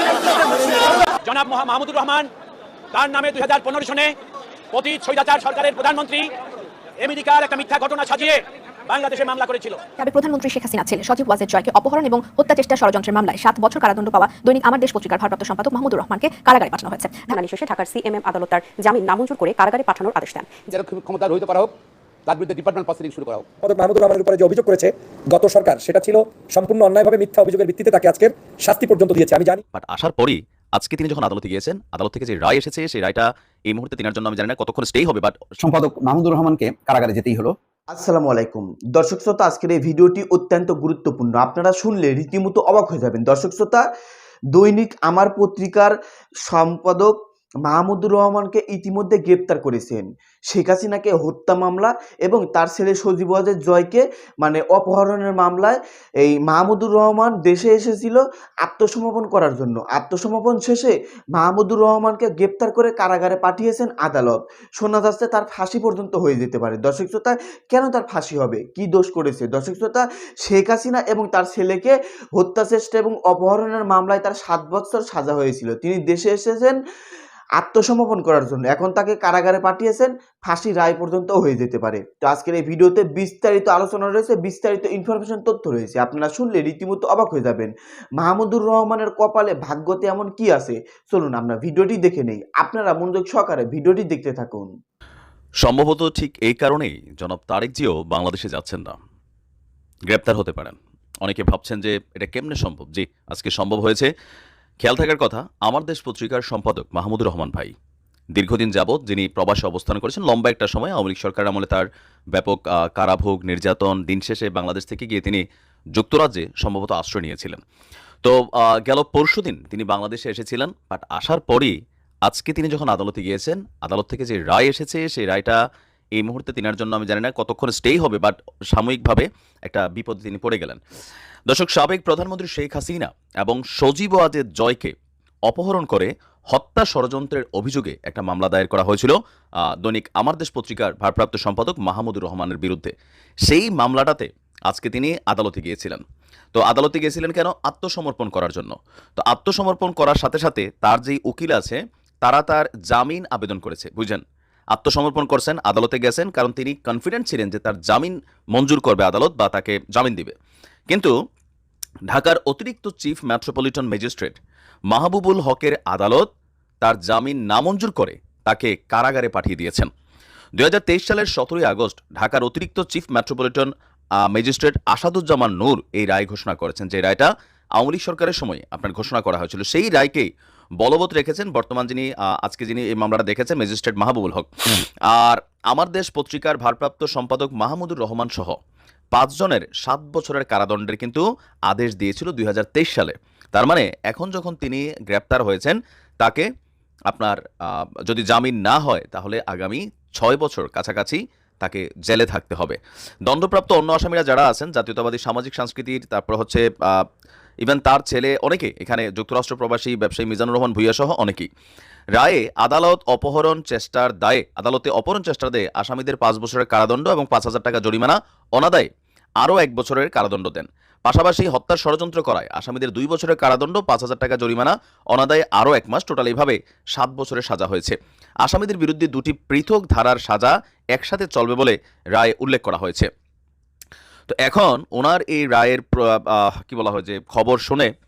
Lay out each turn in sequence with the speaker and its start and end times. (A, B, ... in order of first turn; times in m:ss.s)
0:01.2-0:02.3 A
0:02.9-0:04.2 A
0:04.7-0:06.3 A
0:07.0-0:09.8 A
0:10.0-0:17.4 B
0:17.4-0:20.6 C
0:20.7-0:23.5 D
0:23.6-0:29.6 E
0:29.7-0:35.4 F
0:35.6-0:37.5 G
0:37.9-0:43.8 H
0:44.5-0:45.9 H
0:46.4-0:47.1 H
0:47.6-1:16.8 H
1:17.6-1:34.7 H
1:35.6-1:39.0 F
1:40.1-1:44.1 F
1:44.8-1:47.7 F
1:48.3-1:55.4 F
1:56.0-1:57.6 F
1:58.2-2:01.7 F
2:02.2-2:05.6 F
2:06.2-2:10.8 F
2:11.5-2:14.9 F
2:15.5-2:19.1 F
2:19.8-2:22.9 F
2:23.5-2:26.0 F
2:26.5-2:34.2 F
2:34.7-2:40.3 F
2:42.1-2:44.4 F
2:44.9-2:46.2 F
2:46.8-2:49.9 F
2:50.6-2:53.7 F
2:54.3-3:00.3 F
3:00.8-3:08.6 F
3:09.1-3:16.4 F
3:17.1-3:17.4 F
3:18.1-3:27.0 F
3:27.6-3:31.5 F
3:32.2-3:38.9 F
3:39.4-3:53.1 F
3:54.3-3:57.9 F